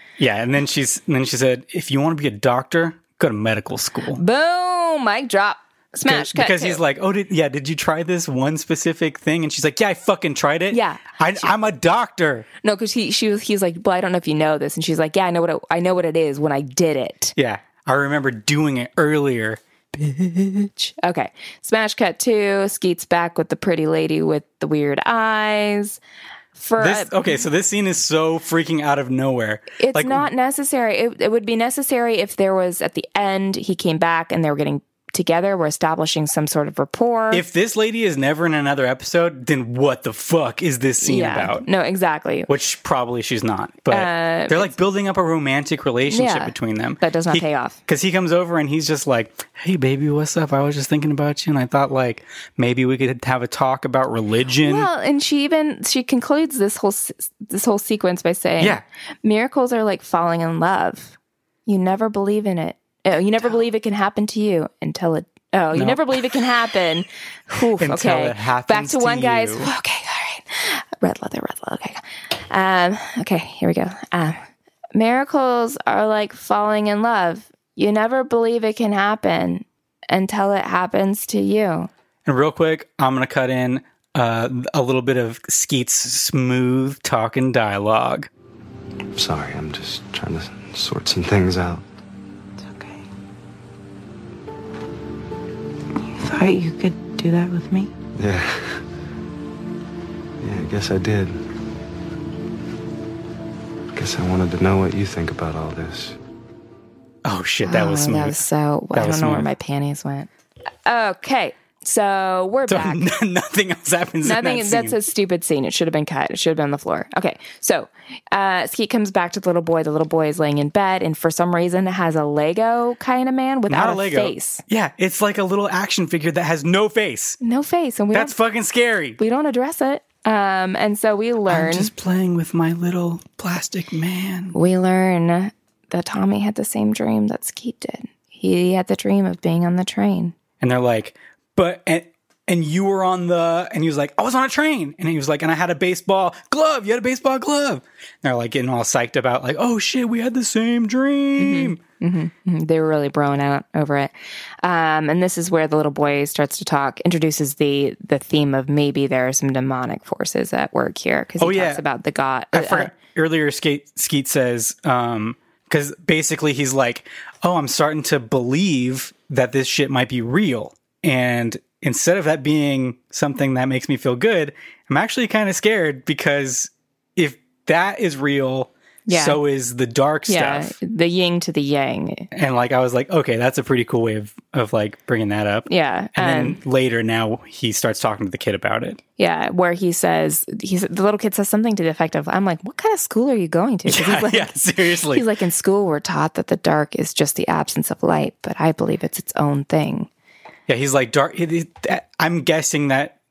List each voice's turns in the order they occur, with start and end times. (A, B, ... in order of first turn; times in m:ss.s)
0:00.2-0:04.2 A
0:04.1-0:06.8 B
0:06.0-0:12.5 A
0:10.7-0:11.5 B
0:12.6-0:17.3 B
0:17.4-0:19.6 A
0:19.9-0:26.0 B
0:26.6-0:27.4 B
0:26.8-0:30.2 A
0:29.8-0:37.4 B
0:37.3-0:41.6 A
0:41.0-0:42.5 B
0:42.5-0:54.9 A
0:43.9-0:44.7 B
0:46.1-0:47.8 B
0:54.6-1:14.4 B
1:05.7-1:06.4 A
1:07.8-1:09.7 A
1:14.9-1:21.9 B
1:22.2-1:28.3 A
1:29.2-1:31.8 C
1:32.6-1:33.1 D
1:36.0-1:37.9 D
1:38.2-1:38.8 C
1:40.4-1:41.4 C
1:43.9-1:46.2 C
1:47.2-1:48.4 A
1:47.6-1:50.3 B
1:48.9-1:49.5 A
1:50.8-1:53.0 B
1:52.7-1:55.0 A
1:54.2-2:04.6 B
2:03.7-2:07.4 A
2:07.4-2:08.4 B
2:08.1-2:09.2 A
2:09.2-2:11.9 B
2:11.5-2:14.5 A
2:14.5-2:20.3 B
2:20.6-2:31.8 A
2:31.4-2:42.9 B
2:41.4-2:41.8 A
2:42.5-3:00.7 A
2:59.1-2:59.4 B
3:00.3-3:02.3 B
3:02.3-3:09.0 A
3:05.7-3:06.6 B
3:09.2-3:20.1 B
3:13.9-3:15.2 A
3:20.7-3:23.1 A